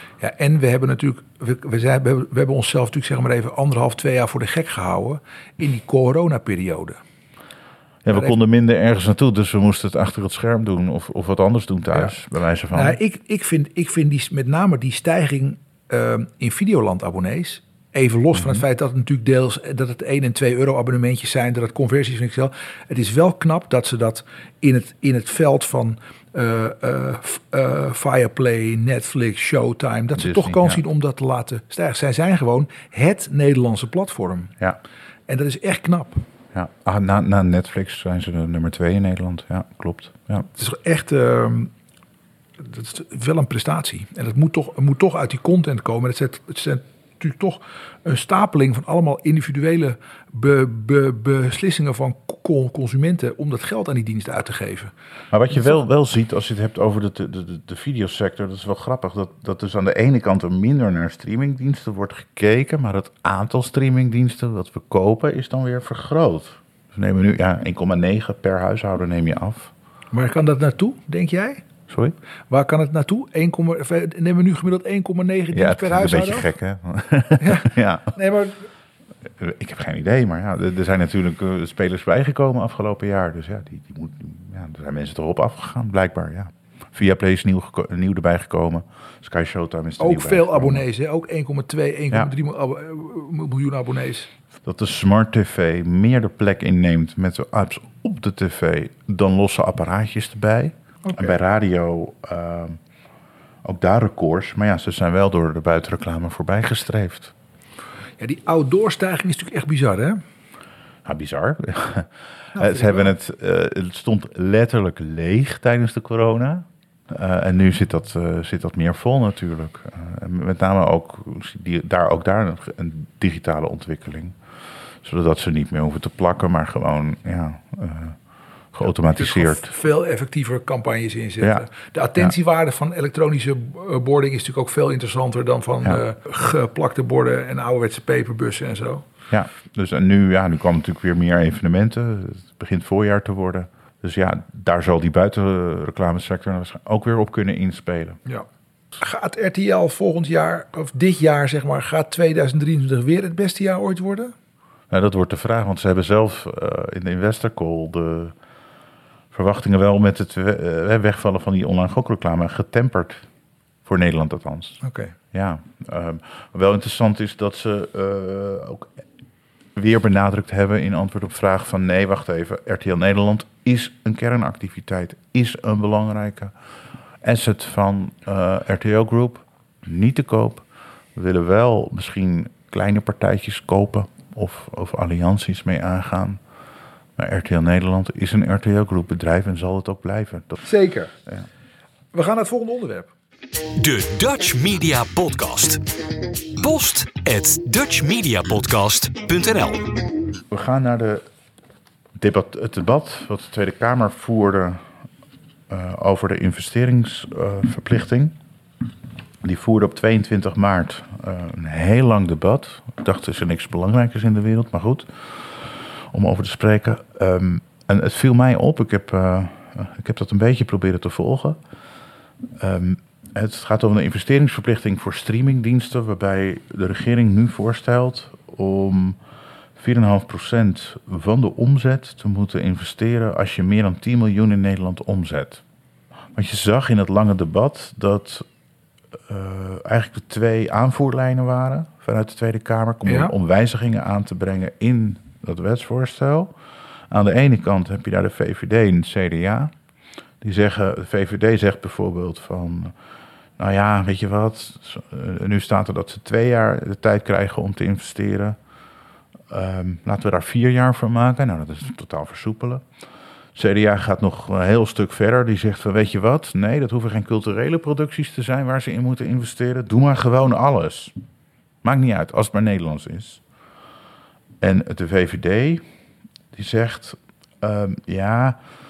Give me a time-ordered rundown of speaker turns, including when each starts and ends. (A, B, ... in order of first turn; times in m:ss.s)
0:00.2-0:07.0 A
0:08.0-0:13.0 B
0:12.7-0:34.5 A
0:18.4-0:18.6 B
0:30.2-0:30.8 B
0:35.3-0:36.3 A
0:36.5-0:40.5 B
0:40.5-0:41.7 A
0:42.6-0:54.9 A
0:55.3-1:09.7 B
0:55.5-0:55.8 A
1:10.1-1:11.6 A
1:11.9-1:12.2 B
1:12.5-1:16.5 A
1:15.5-1:18.2 B
1:17.4-1:18.6 A
1:19.4-1:30.8 B
1:30.0-1:34.3 A
1:34.6-1:42.8 B
1:41.0-1:41.3 A
1:43.6-1:47.3 B
1:48.2-1:50.2 A
1:51.0-2:04.4 B
1:52.6-1:53.1 A
2:05.0-2:08.2 B
2:08.7-2:09.7 B
2:09.2-2:19.0 A
2:11.4-2:11.7 B
2:19.3-2:28.2 B
2:29.0-2:34.3 A
2:34.9-2:38.4 B
2:39.3-2:43.2 B
2:43.8-2:44.8 B
2:44.8-2:45.1 A
2:45.3-2:48.9 B
2:49.8-2:56.5 B
2:57.2-3:06.4 B
3:07.2-3:10.7 B
3:10.6-3:11.1 A
3:12.1-3:13.1 A
3:13.8-3:15.8 C
3:16.6-3:19.9 C
3:20.5-3:21.2 B
3:22.2-3:24.8 B
3:25.7-3:28.4 B
3:29.4-3:41.6 B
3:42.6-3:49.2 B
3:49.8-3:55.6 B
3:56.3-3:58.5 B
3:59.3-4:06.5 B
4:03.1-4:03.3 A
4:07.1-4:09.7 B
4:10.4-4:12.9 B
4:13.6-4:18.6 B
4:19.5-4:22.8 B
4:23.6-4:31.1 B
4:31.8-4:33.4 B
4:34.6-4:35.8 B
4:36.5-4:38.6 B